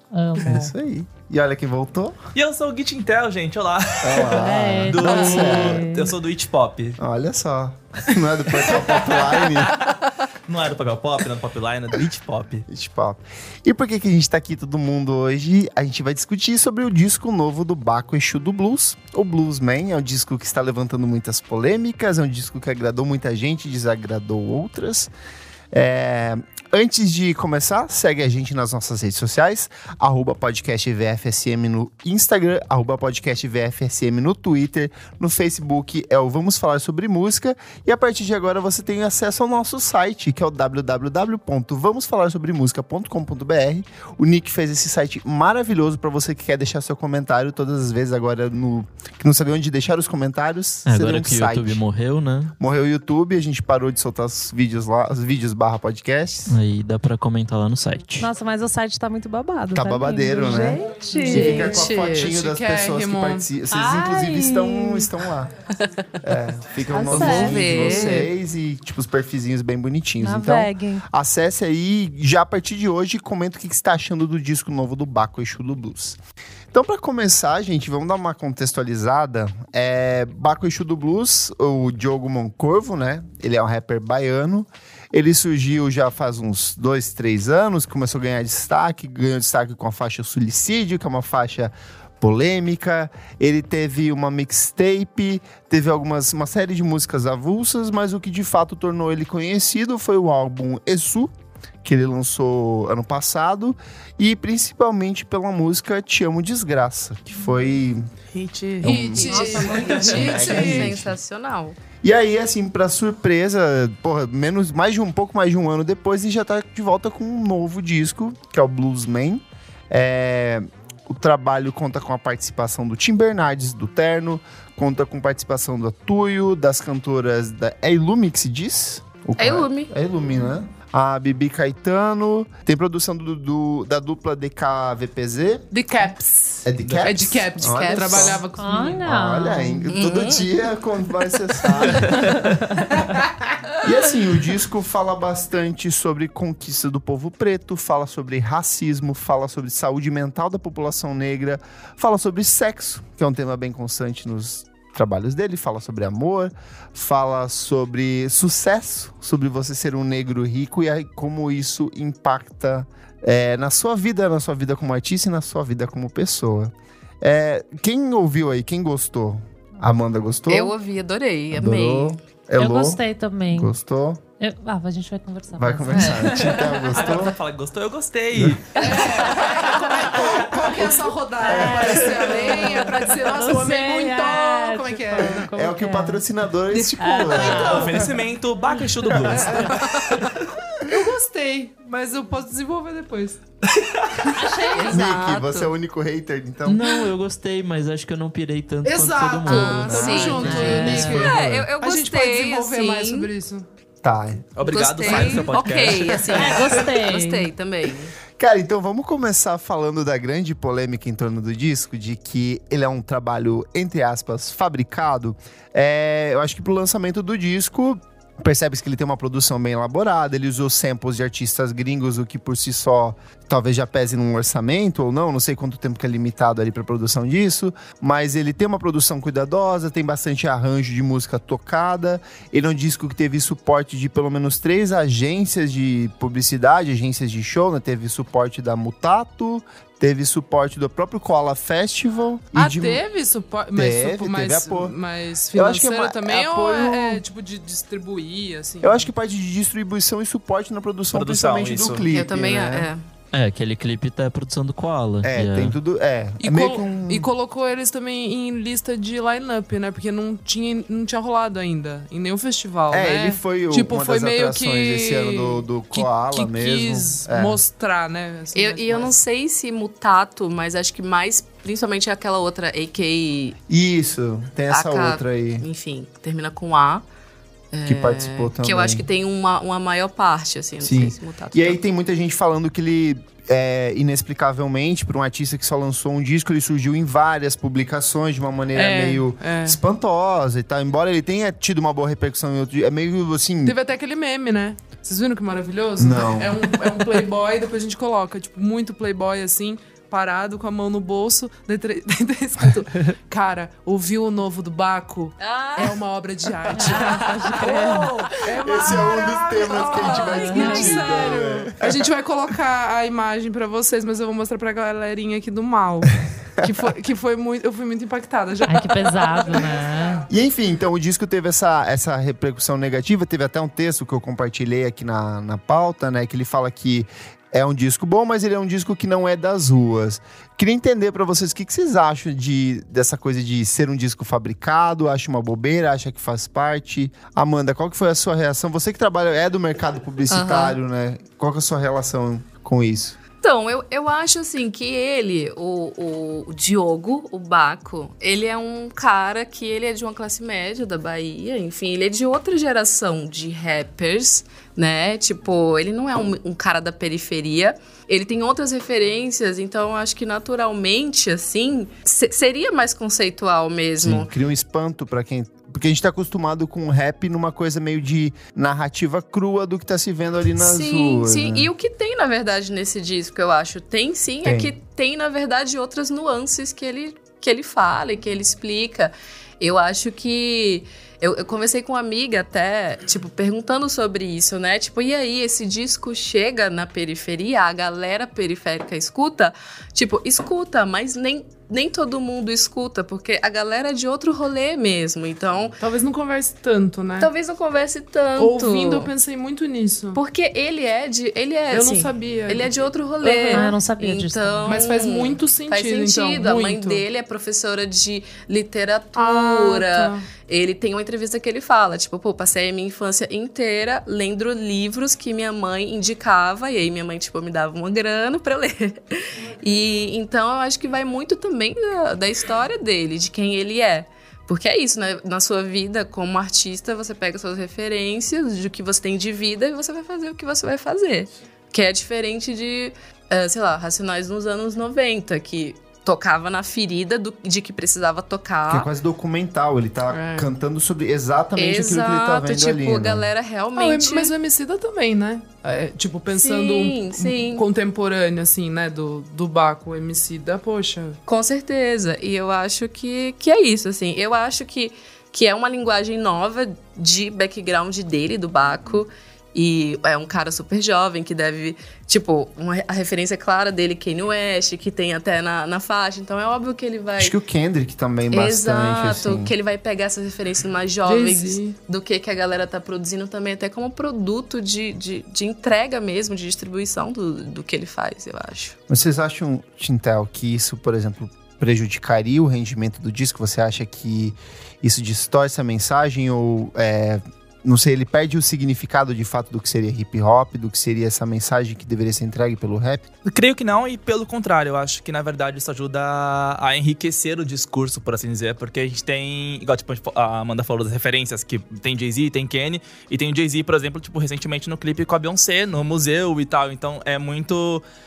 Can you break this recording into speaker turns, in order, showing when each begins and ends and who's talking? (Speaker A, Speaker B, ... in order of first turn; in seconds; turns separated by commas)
Speaker A: 0.1-0.7, Speaker B: 0.4-2.2, Speaker C: 2.3-7.0, Speaker B: 4.0-5.9, Speaker A: 4.3-6.1, Speaker B: 7.0-9.8, Speaker C: 10.5-12.7, Speaker B: 12.7-25.1, Speaker B: 25.7-51.8, Speaker D: 50.9-52.5, Speaker B: 52.6-56.5, Speaker D: 56.5-58.3, Speaker A: 58.2-61.9, Speaker B: 59.7-65.5, Speaker E: 61.1-63.5, Speaker A: 63.7-65.1, Speaker B: 66.2-76.2, Speaker A: 66.9-68.2, Speaker F: 67.0-68.3, Speaker A: 70.2-71.1, Speaker B: 76.7-101.3, Speaker B: 101.8-108.0, Speaker C: 108.3-109.1, Speaker B: 108.8-111.2, Speaker E: 108.8-110.9, Speaker A: 109.1-110.6, Speaker F: 109.2-111.8, Speaker B: 112.0-135.7, Speaker F: 129.4-129.9, Speaker E: 135.7-139.0, Speaker B: 136.6-138.4, Speaker C: 136.8-137.1, Speaker F: 137.6-138.4, Speaker A: 138.6-139.9, Speaker B: 139.0-142.6, Speaker F: 139.9-140.5, Speaker A: 142.2-142.8, Speaker B: 143.8-170.7, Speaker F: 170.5-172.2, Speaker B: 171.5-173.0, Speaker A: 172.6-173.7, Speaker B: 173.5-174.2, Speaker A: 174.4-177.2, Speaker B: 175.6-177.3, Speaker F: 175.9-176.3, Speaker C: 176.9-180.2, Speaker B: 178.3-178.6, Speaker E: 178.8-185.4, Speaker B: 180.1-182.8, Speaker A: 181.4-186.2, Speaker B: 185.2-188.2, Speaker E: 186.7-188.0, Speaker A: 187.0-187.9, Speaker C: 187.4-190.3, Speaker E: 189.1-190.3, Speaker B: 189.2-189.8, Speaker E: 190.8-193.4, Speaker C: 193.7-194.3, Speaker A: 194.3-195.2, Speaker F: 194.7-195.7, Speaker B: 194.9-197.0, Speaker D: 196.7-201.2, Speaker E: 198.8-203.7, Speaker F: 199.4-203.3, Speaker B: 199.8-201.7, Speaker B: 204.0-204.5, Speaker C: 204.6-206.7, Speaker F: 204.6-208.1, Speaker E: 205.1-205.4, Speaker A: 206.3-207.5, Speaker B: 208.4-243.0, Speaker E: 242.5-249.1, Speaker B: 243.7-244.9, Speaker B: 245.5-247.2, Speaker B: 248.8-252.9, Speaker C: 251.1-252.0, Speaker F: 252.1-253.0, Speaker D: 253.3-255.7, Speaker B: 255.2-257.3, Speaker E: 256.4-269.1, Speaker B: 262.9-267.6, Speaker F: 268.5-273.6, Speaker B: 273.7-275.6, Speaker F: 274.7-277.1, Speaker F: 277.7-281.8, Speaker B: 277.9-279.1, Speaker B: 280.8-293.8, Speaker E: 288.7-289.8, Speaker E: 293.6-319.6, Speaker B: 296.0-296.7, Speaker F: 305.4-306.0, Speaker A: 306.7-308.1, Speaker B: 308.6-311.8, Speaker F: 309.6-311.1, Speaker A: 310.4-310.9, Speaker A: 318.7-320.3, Speaker B: 320.3-343.2, Speaker F: 340.3-340.8, Speaker F: 343.4-364.3, Speaker B: 364.0-371.7, Speaker F: 370.6-395.8, Speaker B: 374.4-374.7, Speaker E: 395.8-397.3, Speaker F: 397.2-399.1, Speaker E: 398.4-400.2, Speaker F: 400.1-438.9, Speaker E: 401.7-402.7, Speaker A: 403.2-404.8, Speaker E: 403.4-403.7, Speaker E: 404.6-407.0, Speaker E: 409.1-410.2, Speaker B: 438.7-443.3, Speaker E: 440.1-440.5, Speaker F: 441.6-444.3, Speaker E: 443.7-451.2, Speaker F: 446.3-447.6, Speaker F: 451.2-467.3, Speaker B: 467.2-469.5, Speaker F: 468.3-478.8, Speaker E: 471.0-471.8, Speaker B: 478.9-493.0, Speaker C: 493.2-507.8